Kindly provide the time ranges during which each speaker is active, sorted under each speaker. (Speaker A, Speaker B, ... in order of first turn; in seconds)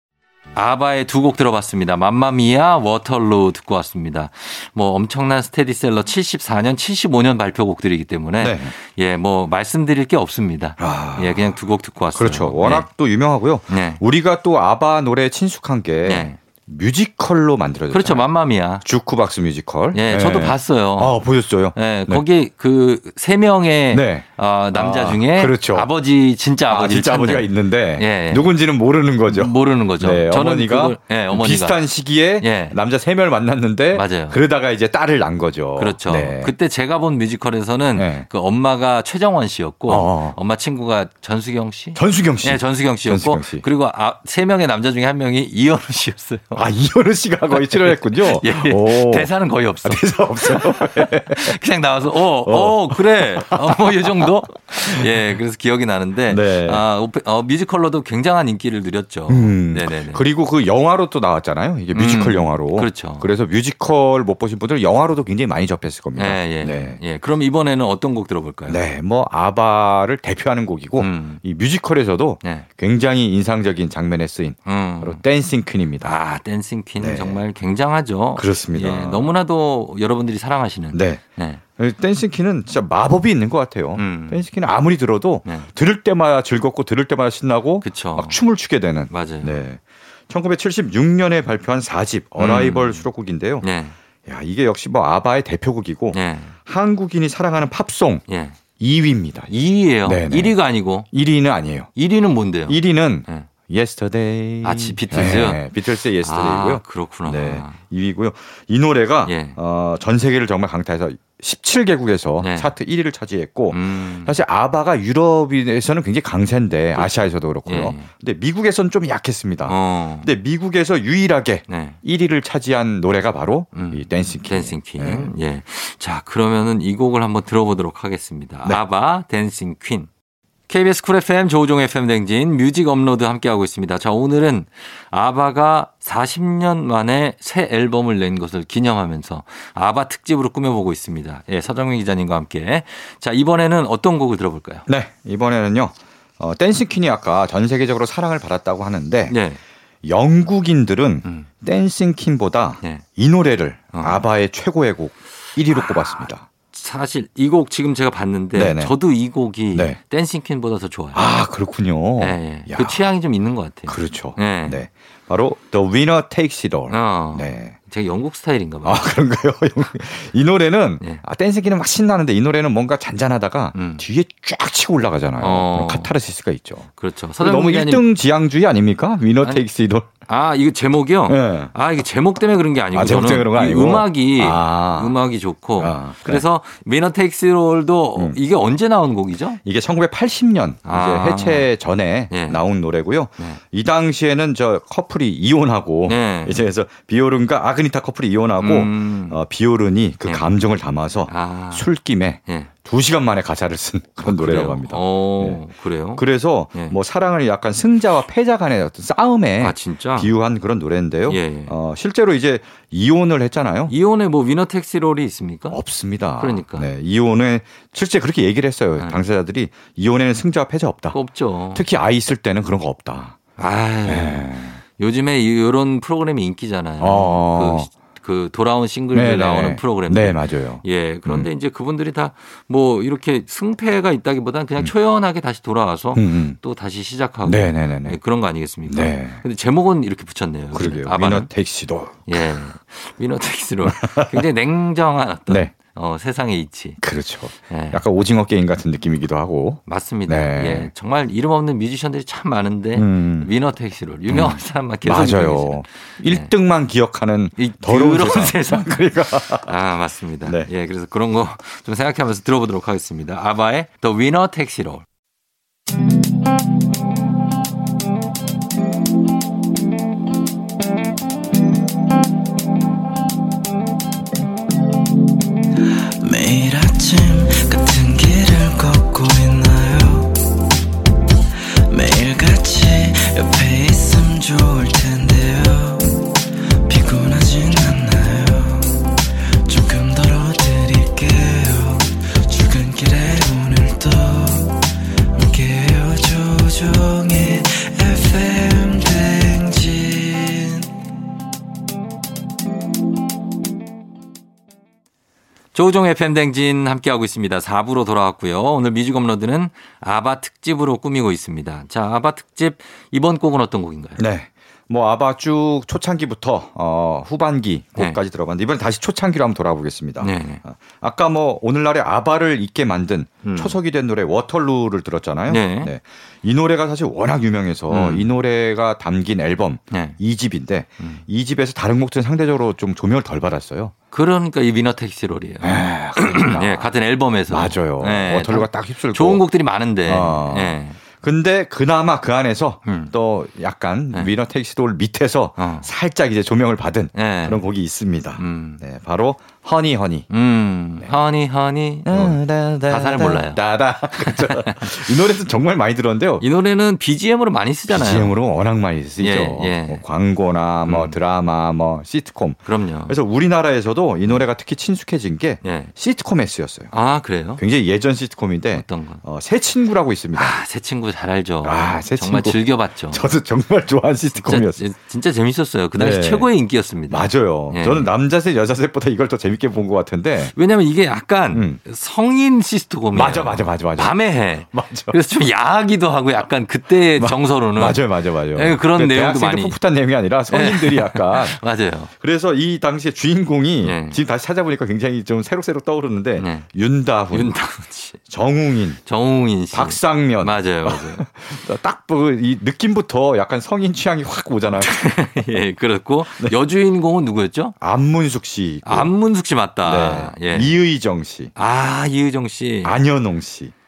Speaker A: 0.6-12.9, 13.7-14.0, 16.1-16.4, 17.9-18.9, 19.9-21.2, 21.8-28.5, 29.3-31.8, 32.4-32.8, 33.9-34.4, 35.8-46.6, 47.6-60.2, 61.9-63.3, 66.2-68.8, 71.0-71.4, 74.7-75.2, 76.0-81.6, 84.0-84.4, 87.8-88.4, 89.1-89.6, 92.4-93.0, 93.6-94.0, 96.1-96.5, 98.3-98.6, 99.5-101.1, 102.0-103.5, 104.6-107.8, 109.3-109.6, 112.4-112.7, 113.7-114.4, 117.0-118.1, 119.7-120.3, 121.7-122.0, 123.8-130.1, 130.7-144.9, 149.3-149.6, 153.9-154.2, 155.7-161.3, 162.2-164.8, 166.9-169.1, 173.8-174.0, 175.4-176.1, 177.0-178.1, 180.3-189.6, 190.8-191.7, 192.3-192.6, 196.1-196.6, 198.6-199.4, 200.2-200.5, 201.3-201.9, 204.2-207.0, 209.6-210.3, 211.3-211.7, 213.9-215.8, 216.4-216.9, 221.1-221.8, 223.6-241.5, 242.3-247.0, 247.7-248.0, 249.9-256.5, 257.6-265.0, 305.7-314.2, 320.2-320.6, 323.4-323.8, 325.5-325.9, 327.9-328.3, 329.9-330.2, 334.1-341.0, 342.9-343.1, 345.6-345.9, 347.1-347.6, 348.4-348.8, 350.3-353.6, 354.2-355.0, 356.4-358.4, 359.2-360.0, 360.9-361.1, 362.6-363.2, 365.6-365.9, 366.9-367.6, 368.7-369.2, 370.4-373.3, 374.4-378.1, 380.6-389.8, 390.5-392.1, 393.8-394.2, 396.4-396.7, 397.3-398.2, 399.1-401.2, 404.8-407.8, 408.9-410.7, 411.6-413.0
Speaker B: 8.4-8.7, 10.8-11.5, 12.1-18.3, 18.8-22.2, 23.9-25.9, 26.7-36.5, 38.0-38.3, 39.9-40.4, 42.0-43.6, 46.5-49.3, 49.8-51.6, 52.4-54.3, 56.3-56.8, 59.3-67.0, 68.7-76.1, 77.0-77.4, 78.4-79.3, 80.9-81.2, 81.8-93.7, 94.3-98.2, 98.8-99.5, 100.0-100.6, 101.1-101.9, 102.7-125.3, 144.9-149.4, 150.0-156.5, 158.5-158.9, 159.7-160.0, 161.1-163.0, 163.9-167.8, 168.8-176.9, 177.4-180.1, 181.3-181.7, 182.9-185.2, 185.8-186.4, 189.6-205.6, 206.2-213.9, 215.7-221.2, 221.7-223.4, 224.1-224.8, 227.0-227.9, 229.1-231.5, 236.2-236.6, 237.4-238.2, 238.9-239.4, 240.7-242.2, 243.9-244.4, 247.0-250.9, 253.0-253.5, 254.3-259.7, 314.2-333.9, 335.6-336.9, 337.5-339.4, 340.1-350.3, 352.1-356.4, 357.9-366.9, 367.6-370.6, 371.6-372.6, 373.1-374.8, 375.9-376.5, 377.1-380.6, 381.5-381.8, 383.1-384.2, 384.7-385.2, 387.1-391.6, 392.2-397.6, 398.3-399.0, 399.7-404.9, 407.8-409.1, 409.8-411.5, 412.8-413.7
Speaker C: 276.2-280.4, 281.9-286.3, 286.9-300.9